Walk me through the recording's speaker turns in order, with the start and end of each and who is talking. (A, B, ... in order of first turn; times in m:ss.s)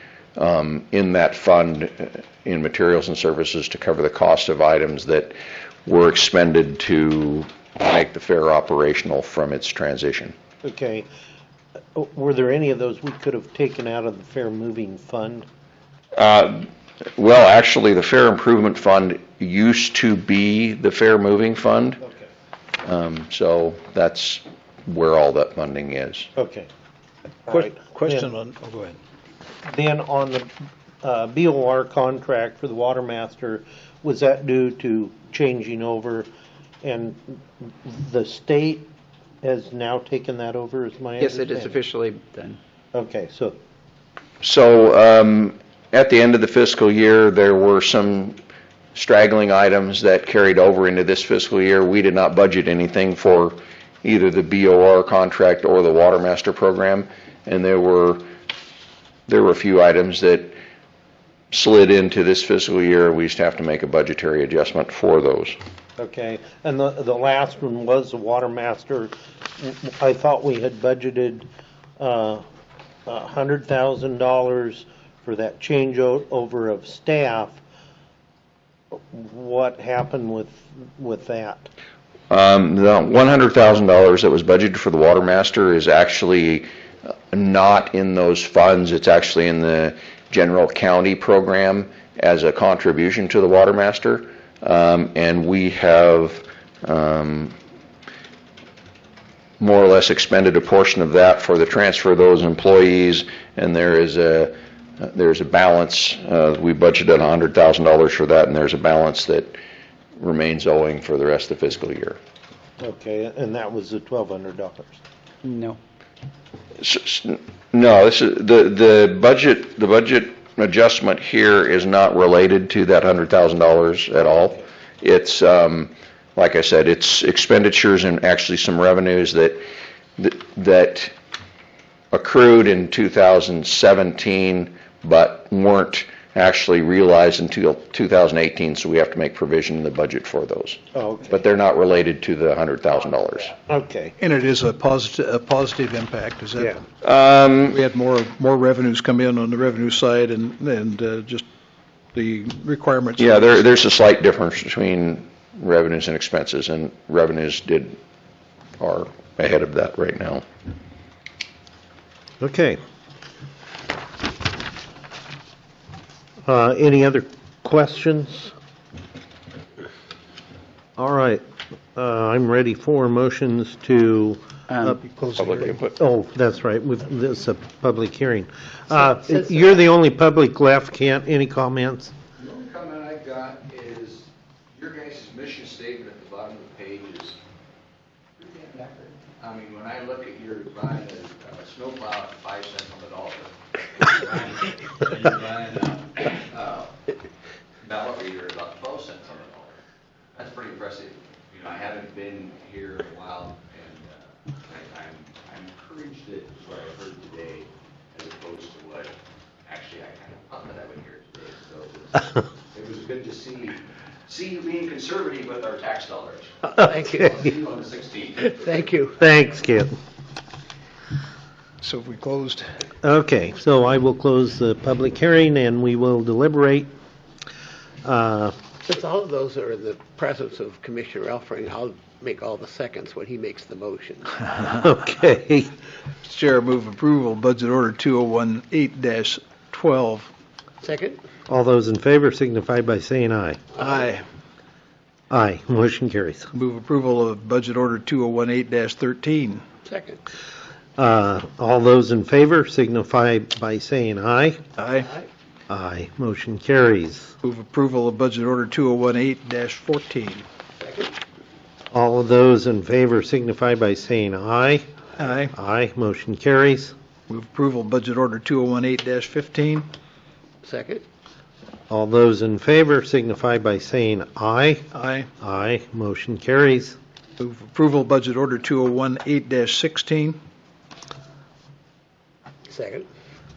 0:00.4-0:05.4 A
0:05.9-0:10.4 A
0:10.6-0:11.1 B
0:12.0-0:15.5 B
0:16.2-0:22.0 A
0:22.8-0:26.3 A
0:26.4-0:26.7 B
0:27.5-0:29.0 C
0:27.5-0:28.3 B
0:29.7-0:30.5 B
0:31.0-0:36.3 B
0:36.8-0:38.9 B
0:39.4-0:41.8 B
0:41.2-0:42.6 D
0:42.9-0:43.6 B
0:44.4-0:48.4 A
0:49.0-0:58.3 A
0:59.3-1:00.6 A
1:01.5-1:05.6 A
1:06.0-1:12.4 B
1:13.1-1:17.6 B
1:18.9-1:21.7 B
1:22.3-1:26.7 A
1:27.3-1:37.6 A
1:39.6-1:49.6 A
1:50.2-1:52.2 A
1:52.8-1:55.0 B
1:55.4-1:55.8 D
1:56.8-2:09.6 A
2:10.2-2:11.1 A
2:12.1-2:23.6 A
2:20.9-2:21.4 B
2:23.6-2:24.2 B
2:24.2-2:26.8 C
2:27.0-2:27.8 A
2:27.7-2:31.5 C
2:32.1-2:33.6 C
2:33.2-2:38.0 A
2:38.8-2:40.4 A
2:42.4-2:42.8 B
2:46.5-2:48.5 B
2:51.0-2:51.4 B
2:52.0-2:54.4 B
2:54.7-2:55.0 D
2:55.0-2:55.8 C
2:55.4-2:55.9 A
2:55.8-3:02.1 B
3:02.6-3:04.2 E
3:04.8-3:07.3 E
3:09.4-3:13.5 E
3:15.4-3:15.9 E
3:16.5-3:16.8 E
3:17.8-3:19.7 E
3:20.4-3:24.1 E
3:24.7-3:29.1 E
3:29.7-3:33.7 E
3:34.3-3:36.5 E
3:36.7-3:37.3 F
3:37.6-3:38.3 E
3:38.6-3:39.2 F
3:39.2-3:39.9 B
3:41.8-3:42.7 C
3:43.0-3:46.9 B
3:48.0-3:48.6 B
3:48.9-3:54.4 F
3:54.7-3:55.7 B
3:56.2-4:00.3 C
4:00.8-4:01.2 F
4:01.5-4:03.7 B
4:03.8-4:04.2 C
4:05.3-4:06.5 B
4:06.5-4:09.6 C
4:09.9-4:10.2 F
4:11.0-4:14.6 B
4:14.8-4:15.1 C
4:15.7-4:17.3 B
4:17.4-4:20.4 C
4:20.8-4:21.1 F
4:21.9-4:24.9 B
4:25.2-4:25.5 C
4:25.5-4:27.0 B
4:27.3-4:29.9 C
4:30.6-4:31.0 F
4:31.9-4:34.8 B
4:34.9-4:35.3 C
4:35.4-4:37.0 B
4:37.4-4:40.4 C
4:42.7-4:43.1 F